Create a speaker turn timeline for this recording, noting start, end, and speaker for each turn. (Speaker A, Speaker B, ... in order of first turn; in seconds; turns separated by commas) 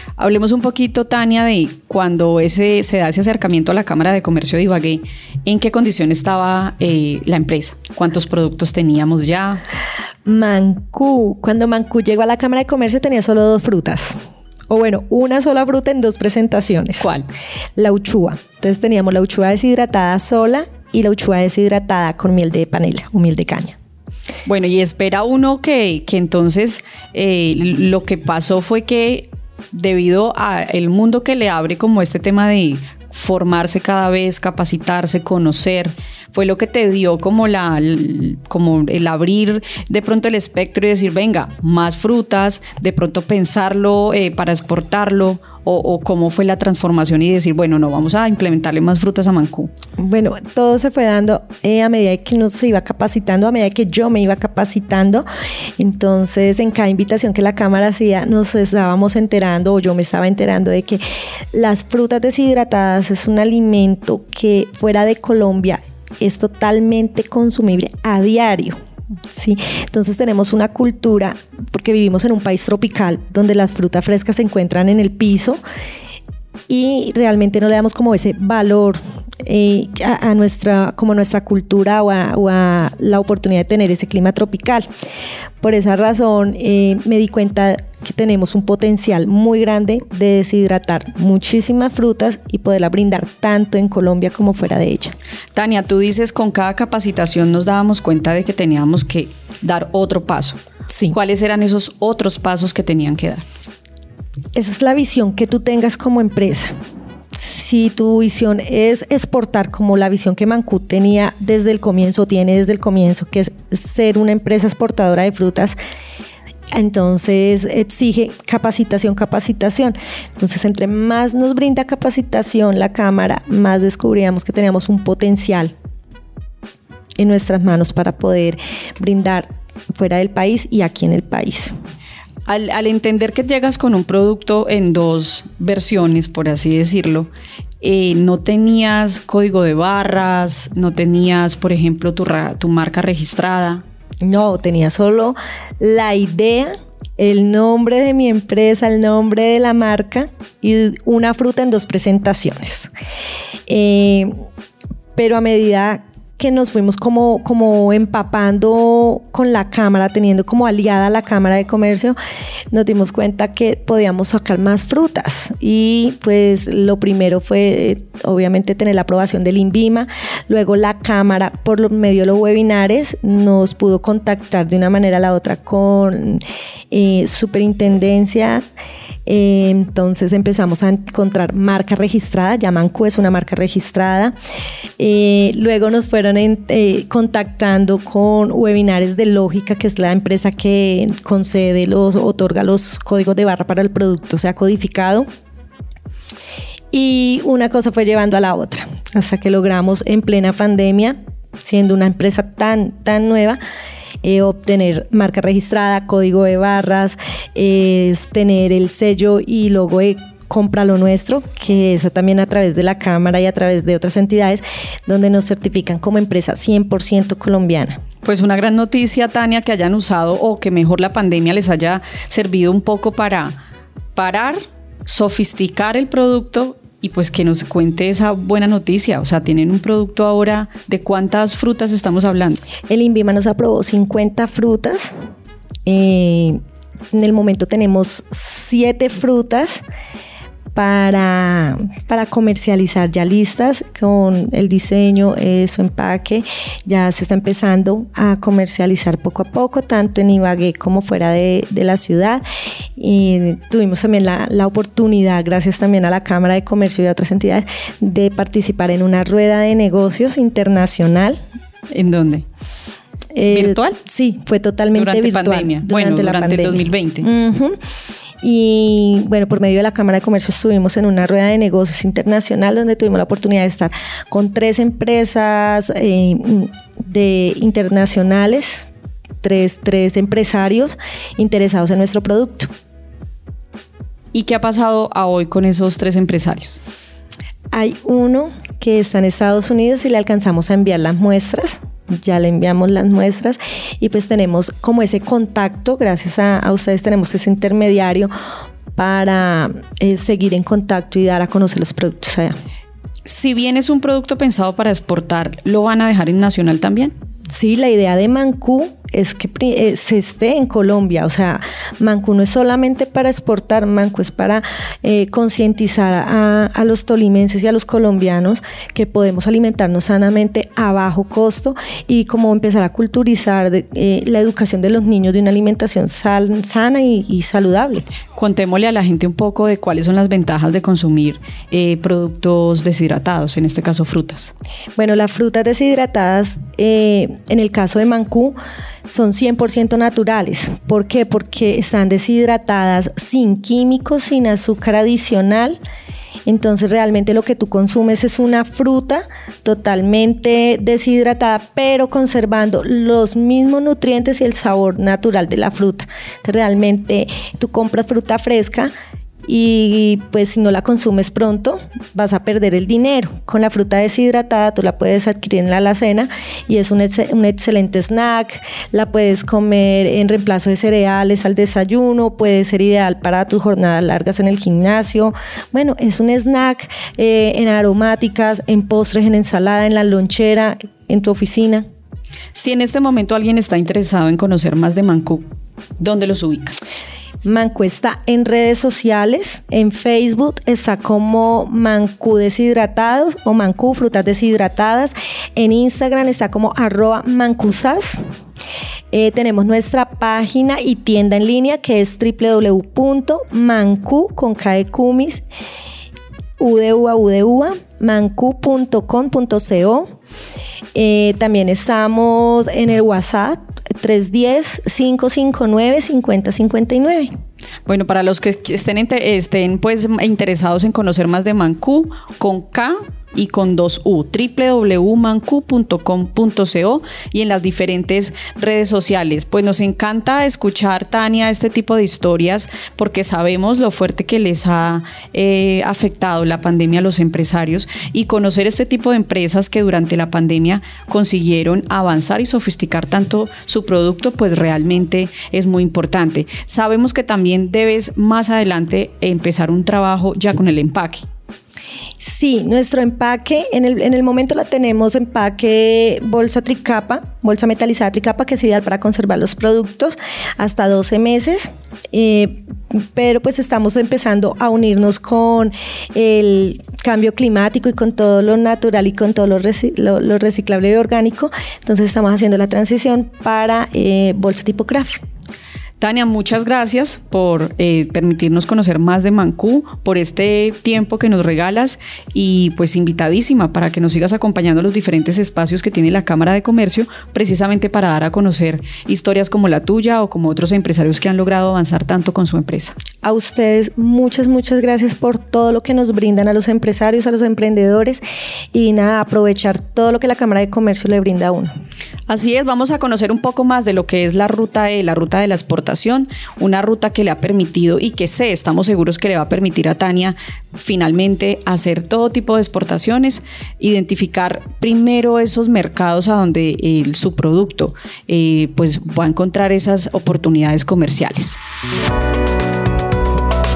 Speaker A: 0.2-9.6, Speaker B: 10.2-14.2, Speaker B: 14.7-17.1, Speaker A: 17.0-17.3, Speaker B: 17.8-23.7, Speaker A: 24.4-49.7, Speaker B: 50.0-55.2, Speaker B: 55.8-61.0, Speaker B: 61.5-68.8, Speaker B: 69.3-75.6, Speaker B: 76.7-84.9, Speaker B: 85.6-95.1, Speaker A: 95.5-103.4, Speaker B: 100.9-101.1, Speaker B: 104.5-106.7, Speaker B: 107.3-115.8, Speaker B: 116.7-125.7, Speaker B: 127.2-131.7, Speaker A: 132.4-137.3, Speaker A: 137.8-143.8, Speaker B: 144.2-152.9, Speaker B: 153.7-154.3, Speaker B: 155.2-162.2, Speaker B: 162.7-178.6, Speaker B: 179.2-184.3, Speaker B: 185.0-195.3, Speaker B: 196.9-203.6, Speaker B: 204.2-218.0, Speaker A: 218.2-223.5, Speaker A: 224.1-232.6, Speaker B: 232.9-235.1, Speaker B: 235.8-236.6, Speaker B: 237.1-239.8, Speaker B: 240.7-252.4, Speaker B: 253.0-261.4, Speaker A: 261.9-262.4, Speaker B: 263.3-267.8, Speaker A: 263.5-264.0, Speaker A: 264.9-267.3, Speaker B: 268.4-278.8, Speaker B: 279.4-282.7, Speaker A: 284.3-286.8, Speaker B: 287.7-298.3, Speaker B: 298.9-302.6, Speaker A: 303.2-307.1, Speaker B: 307.5-328.0, Speaker A: 328.3-334.5, Speaker B: 335.0-345.8, Speaker B: 346.4-358.9, Speaker B: 359.4-381.9, Speaker A: 382.5-385.4, Speaker A: 386.0-386.7, Speaker B: 387.4-398.2, Speaker B: 399.1-405.4, Speaker B: 406.6-410.1, Speaker B: 410.9-417.3, Speaker A: 417.9-451.2, Speaker B: 452.2-475.2, Speaker A: 476.0-493.0, Speaker B: 493.2-498.2, Speaker B: 498.7-501.7, Speaker A: 502.3-521.6